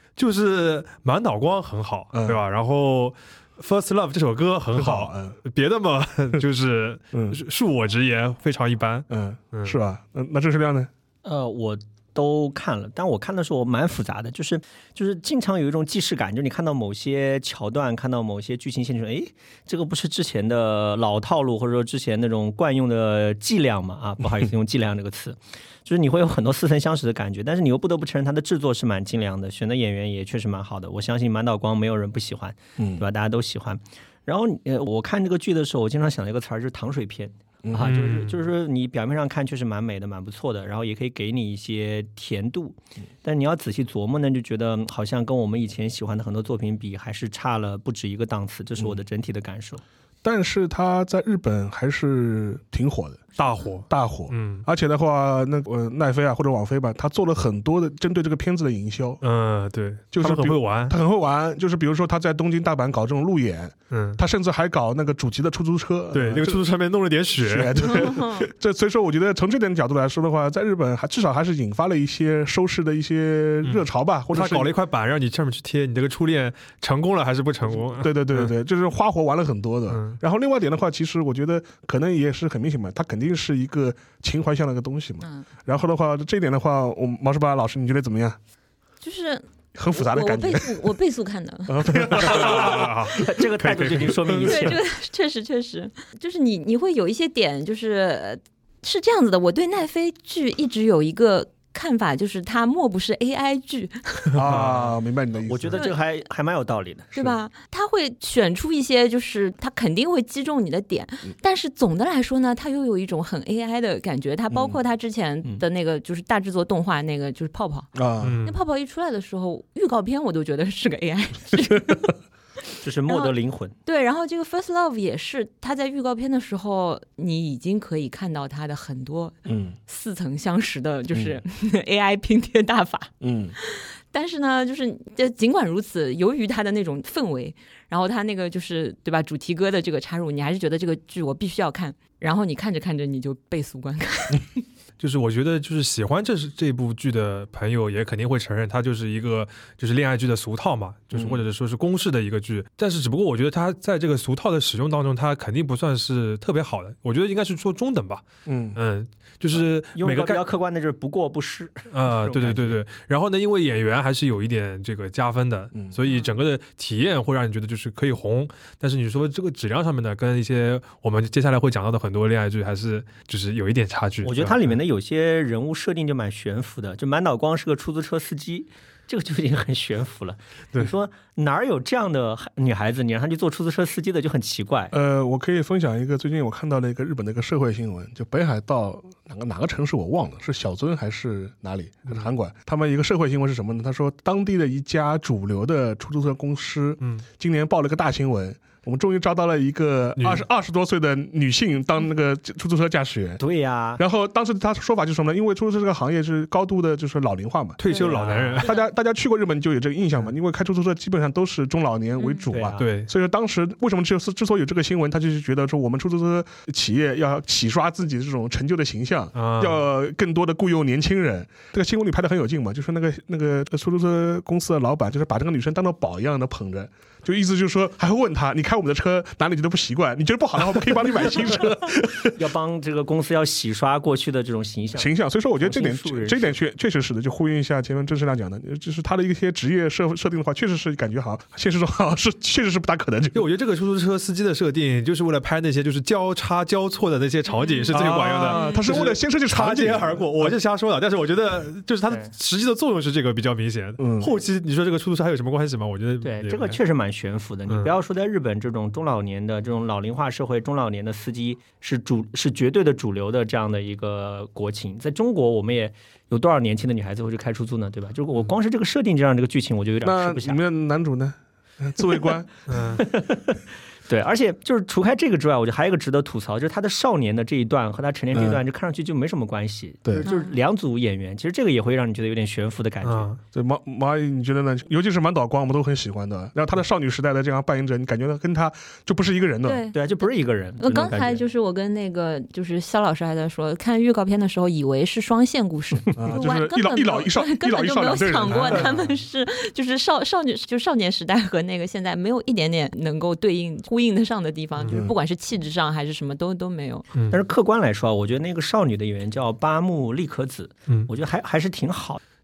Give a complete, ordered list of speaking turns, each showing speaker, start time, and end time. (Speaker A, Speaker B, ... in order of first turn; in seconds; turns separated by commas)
Speaker A: 0.2-9.8, Speaker B: 2.1-2.4, Speaker B: 4.7-5.4, Speaker B: 7.1-7.4, Speaker B: 9.1-10.9, Speaker C: 11.2-49.8, Speaker B: 32.8-33.0, Speaker B: 37.6-38.0, Speaker A: 37.8-38.4, Speaker B: 50.2-53.3, Speaker A: 53.4-54.6, Speaker B: 53.9-59.2, Speaker A: 59.2-61.0, Speaker B: 60.1-66.6, Speaker A: 63.9-64.2, Speaker A: 66.1-67.9, Speaker B: 67.4-74.7, Speaker D: 67.8-68.5, Speaker A: 73.6-78.5, Speaker B: 77.7-88.4, Speaker A: 79.9-80.2, Speaker D: 85.2-85.5, Speaker D: 89.0-92.0, Speaker B: 89.7-90.9, Speaker B: 91.7-93.4, Speaker A: 91.9-94.8, Speaker C: 92.1-94.8, Speaker D: 94.4-104.3, Speaker B: 104.3-105.8, Speaker A: 104.3-104.9, Speaker C: 105.5-107.3, Speaker D: 105.7-106.0, Speaker D: 107.2-117.9, Speaker B: 114.5-114.8, Speaker B: 117.9-118.4, Speaker A: 118.2-118.6, Speaker D: 118.4-122.1, Speaker C: 122.8-123.7, Speaker D: 123.1-123.3, Speaker D: 123.8-144.6, Speaker B: 129.4-129.8, Speaker B: 131.1-131.4, Speaker B: 133.2-133.6, Speaker A: 145.0-160.4, Speaker B: 151.1-151.4, Speaker B: 158.4-158.8, Speaker C: 159.5-162.8, Speaker A: 161.9-174.7, Speaker D: 166.0-166.3, Speaker C: 174.2-184.9, Speaker B: 184.9-203.4, Speaker A: 200.2-200.4, Speaker C: 203.4-204.0, Speaker B: 204.0-232.5, Speaker A: 207.8-208.8, Speaker C: 207.9-208.7, Speaker D: 212.2-212.5, Speaker C: 212.5-212.8, Speaker A: 212.8-213.1, Speaker A: 219.3-219.8, Speaker C: 232.3-235.1, Speaker B: 234.9-243.4, Speaker C: 235.6-236.6, Speaker A: 243.3-256.8, Speaker D: 247.5-248.9, Speaker B: 247.9-250.5, Speaker B: 254.0-254.3, Speaker C: 256.2-270.6, Speaker A: 257.7-257.9, Speaker B: 270.0-273.0, Speaker A: 272.7-273.0, Speaker C: 272.8-283.3, Speaker B: 278.3-278.6, Speaker D: 280.2-280.5, Speaker A: 283.0-283.4, Speaker B: 283.5-289.9, Speaker D: 289.6-289.9, Speaker C: 289.9-291.2, Speaker D: 290.8-307.0, Speaker B: 290.8-291.4, Speaker C: 296.1-296.3, Speaker B: 296.1-298.9, Speaker A: 298.5-298.9, Speaker B: 304.9-305.1, Speaker A: 307.1-307.4, Speaker C: 307.3-312.2